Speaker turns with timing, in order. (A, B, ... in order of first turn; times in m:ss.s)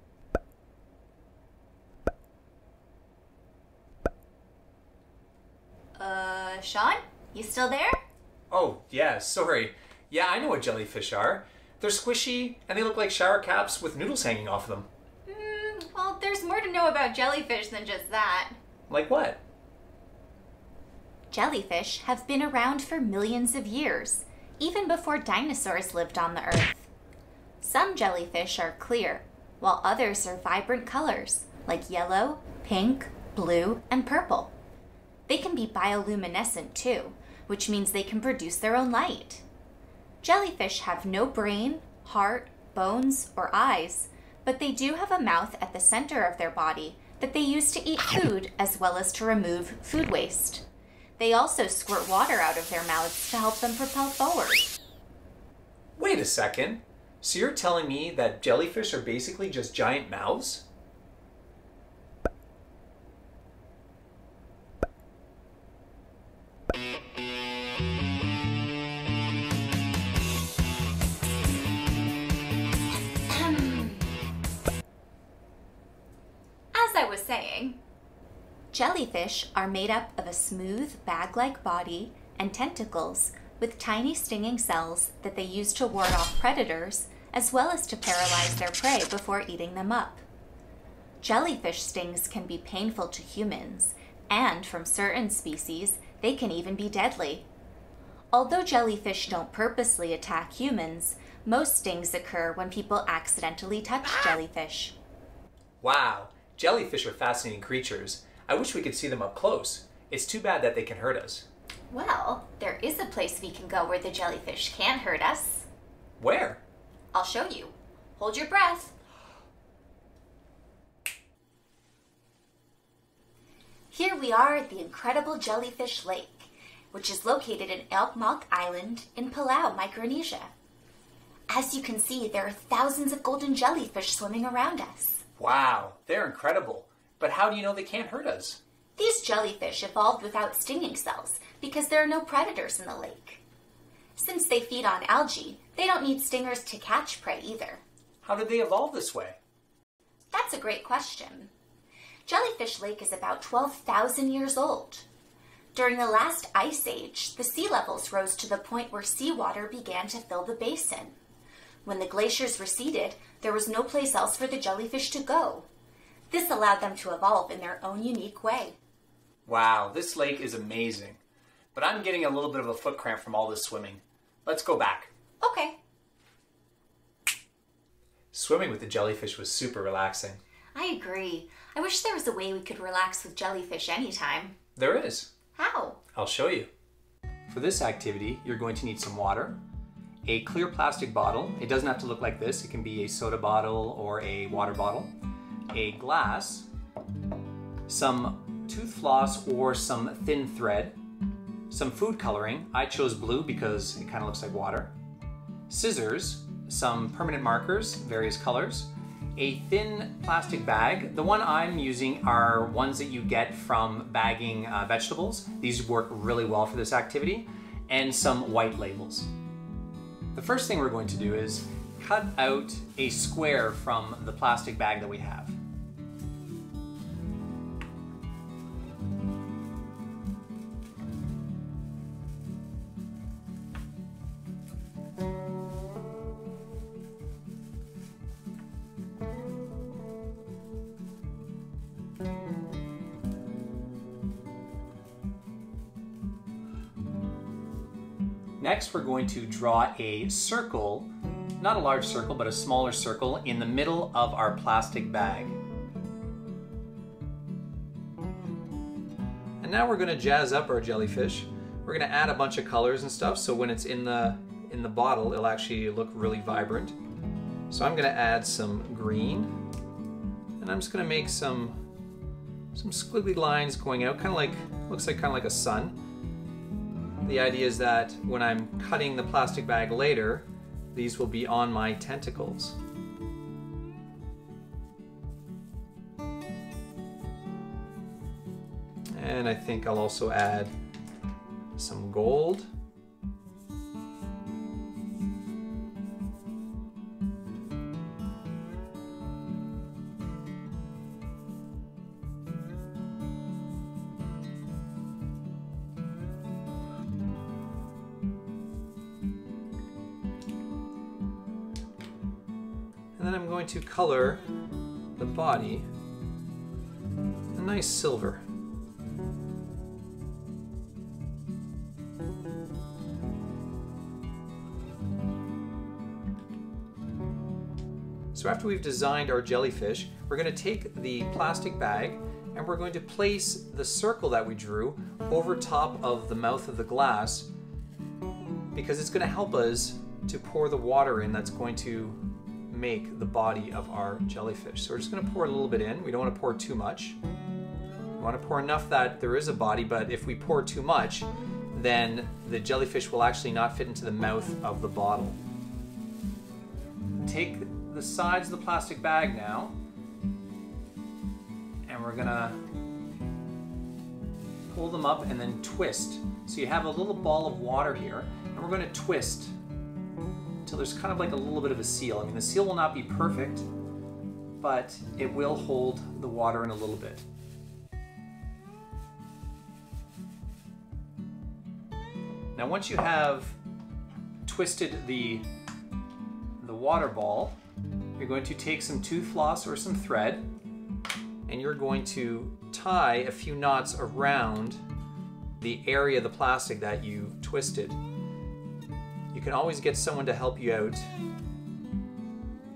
0:06.0-0:08.0 A
0:08.5-0:14.9 B
0:15.3-0:18.6 A
0:18.9-0:19.4 B
0:21.3-0:26.9 A
0:27.6-0:34.5 A
0:35.3-0:39.4 A
0:40.2-0:50.7 A
0:51.2-0:54.7 A
0:56.0-1:00.7 B
1:13.2-1:14.1 A
1:16.7-1:17.8 A
1:18.7-1:30.2 A
1:31.2-1:37.5 A
1:38.3-1:45.0 A
1:45.8-1:51.5 B
1:51.9-1:55.7 A
1:56.2-1:56.6 B
1:57.1-1:59.0 A
2:03.9-2:10.5 A
2:11.5-2:15.2 A
2:15.4-2:18.6 B
2:19.0-2:23.4 A
2:24.2-2:27.8 A
2:28.2-2:29.4 B
2:30.3-2:31.5 A
2:32.3-2:35.1 A
2:35.7-2:41.2 A
2:41.8-2:45.7 A
2:46.3-2:48.8 A
2:49.5-2:51.2 B
2:51.8-2:55.1 B
2:55.4-2:55.8 A
2:58.3-3:00.4 B
3:00.8-3:04.6 A
3:04.8-3:05.3 B
3:05.6-3:06.0 A
3:06.2-3:06.7 B
3:07.5-3:09.6 B
3:10.2-3:15.1 B
3:15.7-3:16.7 B
3:17.9-3:21.0 B
3:21.7-3:24.9 B
3:25.7-3:39.3 B
3:40.3-3:45.6 B
4:08.6-4:15.6 B
4:19.6-4:27.0 B
4:27.7-4:29.6 B
4:30.6-4:31.8 B
4:32.7-4:36.0 B
4:37.2-4:42.8 B
4:49.1-4:50.7 B
4:51.8-4:52.7 B
5:13.2-5:14.4 B
5:15.2-5:15.9 B
5:17.5-5:18.4 B
5:28.3-5:37.5 B
5:38.7-5:47.2 B
5:48.2-5:55.4 B
5:57.2-5:59.8 B
6:01.9-6:02.6 B
6:04.7-6:09.6 B
6:10.6-6:13.7 B
6:14.6-6:17.3 B
6:22.6-6:23.6 B
6:24.5-6:25.4 B
6:26.6-6:27.6 B
6:28.2-6:30.5 B
6:31.5-6:34.8 B
6:35.6-6:38.0 B
6:39.3-6:41.1 B